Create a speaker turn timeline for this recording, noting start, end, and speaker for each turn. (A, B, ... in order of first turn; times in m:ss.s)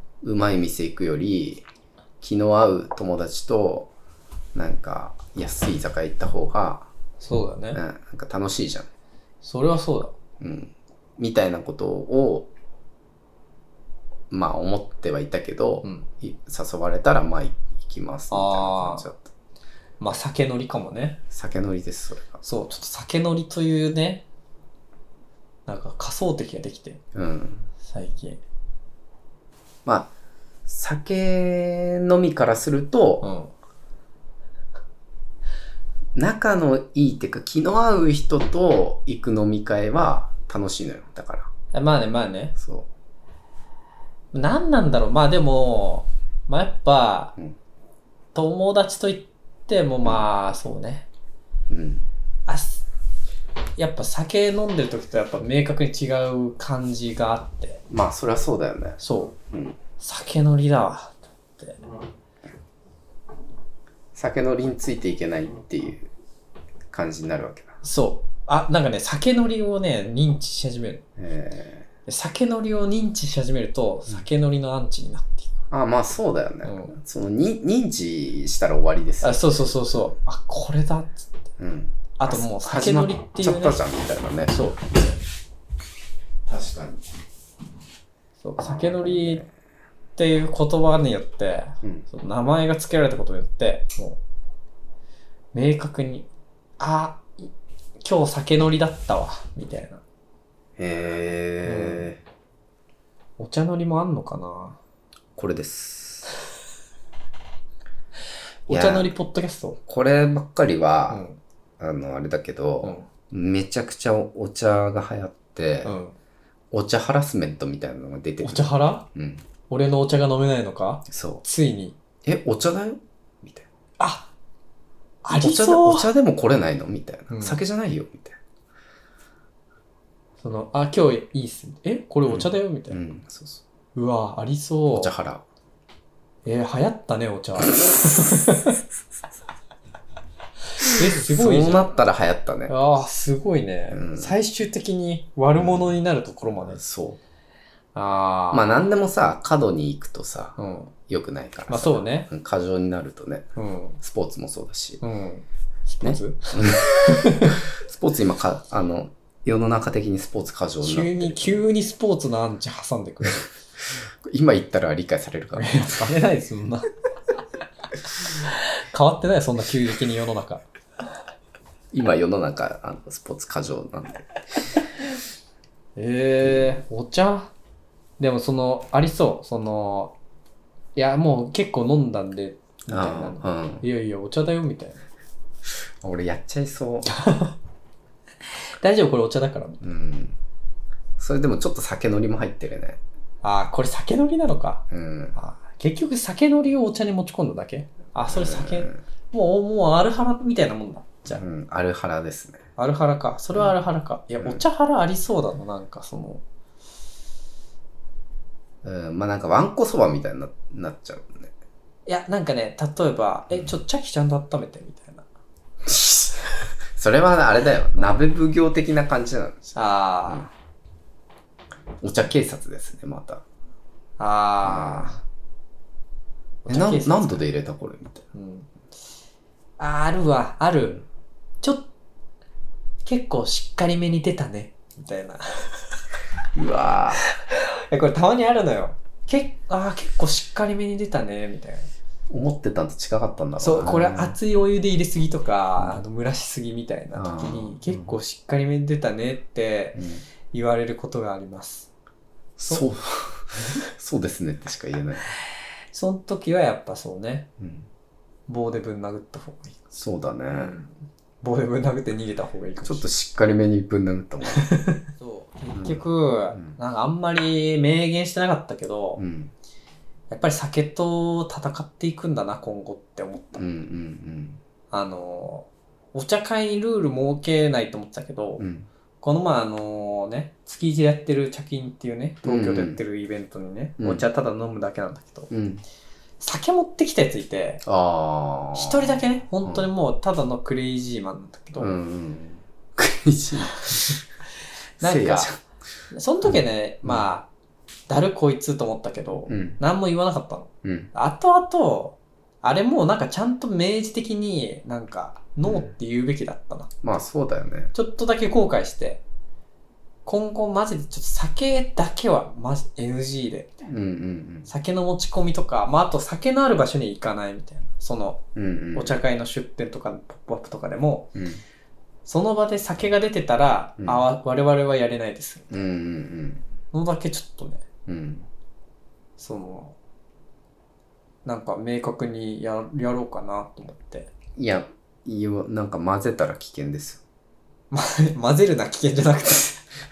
0:00.2-0:01.6 A
0:02.2-0:03.9 A
0:04.5-0:06.9 A
0:07.2-0:07.8 B
0:07.7-0:08.9 A
0:09.4-0:10.2 B
0:10.4-0:12.5 A
0:14.3-0:19.3 A
0:18.3-0:19.1 B
0:20.0-0:21.2 B
0:21.3-0:22.4 A
0:22.4-0:24.2 B
0:25.7-0:27.0 B
0:27.1-0:27.7 A
0:27.8-0:28.4 B
0:29.8-0:30.1 A
0:30.7-0:33.3 A
0:33.2-0:33.5 B
0:36.2-0:41.5 A
0:41.7-0:42.6 B
0:42.6-0:42.9 A
0:44.3-0:47.4 B
0:48.3-0:51.1 B
0:51.7-0:52.1 A
0:52.5-0:52.8 B
0:53.8-0:57.8 B
0:57.9-0:59.8 A
0:59.0-0:59.4 B
1:00.0-1:01.8 B
1:04.2-1:06.1 A
1:06.9-1:07.8 A
1:07.8-1:11.0 B
1:11.2-1:11.9 A
1:12.1-1:15.6 B
1:15.7-1:19.7 A
1:16.6-1:17.0 B
1:19.2-1:21.3 B
1:21.6-1:25.2 A
1:22.2-1:23.8 B
1:24.5-1:24.8 B
1:26.5-1:27.0 A
1:28.4-1:29.5 B
1:28.6-1:29.5 A
1:30.2-1:34.2 B
1:35.5-1:36.3 B
1:36.8-1:40.0 B
1:40.8-1:42.2 A
1:41.6-1:42.1 B
1:43.4-1:44.8 B
1:45.4-1:46.3 A
1:48.7-1:49.8 B
1:48.7-1:49.1 A
1:49.9-1:51.2 A
1:51.1-1:51.4 B
1:51.8-1:56.0 A
1:55.8-1:56.2 B
1:56.7-1:59.5 A
1:58.4-1:59.1 B
1:59.7-2:02.0 B
2:01.1-2:01.4 A
2:02.2-2:03.7 A
2:04.0-2:04.3 B
2:05.2-2:06.1 B
2:05.3-2:08.4 A
2:07.3-2:07.6 B
2:10.4-2:13.0 B
2:12.3-2:13.6 A
2:14.0-2:15.1 B
2:14.9-2:15.4 A
2:16.4-2:18.8 B
2:20.8-2:21.9 B
2:20.8-2:22.7 A
2:22.7-2:26.8 B
2:23.9-2:24.4 A
2:25.6-2:26.0 A
2:26.5-2:27.2 A
2:27.9-2:28.7 B
2:28.5-2:33.5 A
2:30.6-2:30.9 B
2:31.7-2:32.3 B
2:33.6-2:34.0 B
2:34.0-2:35.0 A
2:35.0-2:37.6 B
2:36.0-2:41.6 A
2:40.8-2:43.5 B
2:43.9-2:46.2 A
2:45.6-2:46.9 B
2:48.4-2:50.6 B
2:51.9-2:54.3 A
2:56.0-2:57.5 B
2:56.4-2:56.8 A
2:58.2-3:00.2 B
3:01.0-3:05.1 B
3:02.9-3:03.8 A
3:06.0-3:07.1 A
3:07.1-3:07.6 B
3:08.8-3:09.8 B
3:09.8-3:10.4 A
3:11.2-3:13.0 A
3:13.4-3:14.8 B
3:14.9-3:15.4 A
3:15.4-3:21.4 B
3:18.3-3:19.0 A
3:21.3-3:22.6 A
3:22.8-3:26.4 B
3:28.8-3:31.5 A
3:32.1-3:35.2 B
3:33.5-3:33.8 A
3:35.9-3:36.4 A
3:37.0-3:39.8 A
3:39.7-3:40.5 B
3:42.0-3:43.4 A
3:44.2-3:45.2 B
3:44.6-3:45.2 A
3:46.6-3:47.4 B
3:46.7-3:48.2 A
3:48.3-3:48.7 B
3:49.8-3:51.0 B
3:51.6-3:51.9 B
3:53.0-3:56.0 B
3:56.5-3:57.3 A
3:57.2-4:01.9 B
4:02.3-4:04.4 A
4:03.6-4:11.9 B
4:07.1-4:08.0 A
4:10.0-4:10.2 A
4:12.6-4:15.3 A
4:15.9-4:17.5 B
4:17.6-4:17.9 A
4:18.5-4:19.9 B
4:19.9-4:20.8 A
4:20.5-4:23.1 B
4:22.8-4:24.7 A
4:24.5-4:29.2 B
4:25.7-4:26.8 A
4:29.2-4:29.5 A
4:30.3-4:33.6 B
4:33.6-4:34.6 A
4:34.9-4:38.6 B
4:38.6-4:38.9 A
4:39.2-4:45.5 B
4:42.4-4:43.0 A
4:44.0-4:44.2 A
4:45.5-4:45.8 A
4:46.4-4:47.8 B
4:47.8-4:49.9 A
4:48.7-4:51.9 B
4:51.8-4:54.2 A
4:55.0-4:55.5 B
4:55.0-4:55.6 A
4:56.1-4:57.5 B
4:56.5-4:57.2 A
4:58.1-5:07.0 B
4:59.5-4:59.8 A
5:00.8-5:01.1 A
5:05.6-5:05.9 A
5:07.0-5:07.9 A
5:07.9-5:09.2 B
5:10.2-5:13.9 B
5:13.9-5:14.7 A
5:14.7-5:18.4 B
5:18.6-5:19.2 A
5:19.0-5:21.4 B
5:21.4-5:21.6 A
5:22.2-5:25.8 B
5:25.7-5:26.6 A
5:26.9-5:27.9 B
5:28.1-5:28.5 A
5:29.4-5:30.0 B
5:31.4-5:34.3 B
5:34.6-5:37.2 A
5:37.9-5:39.9 B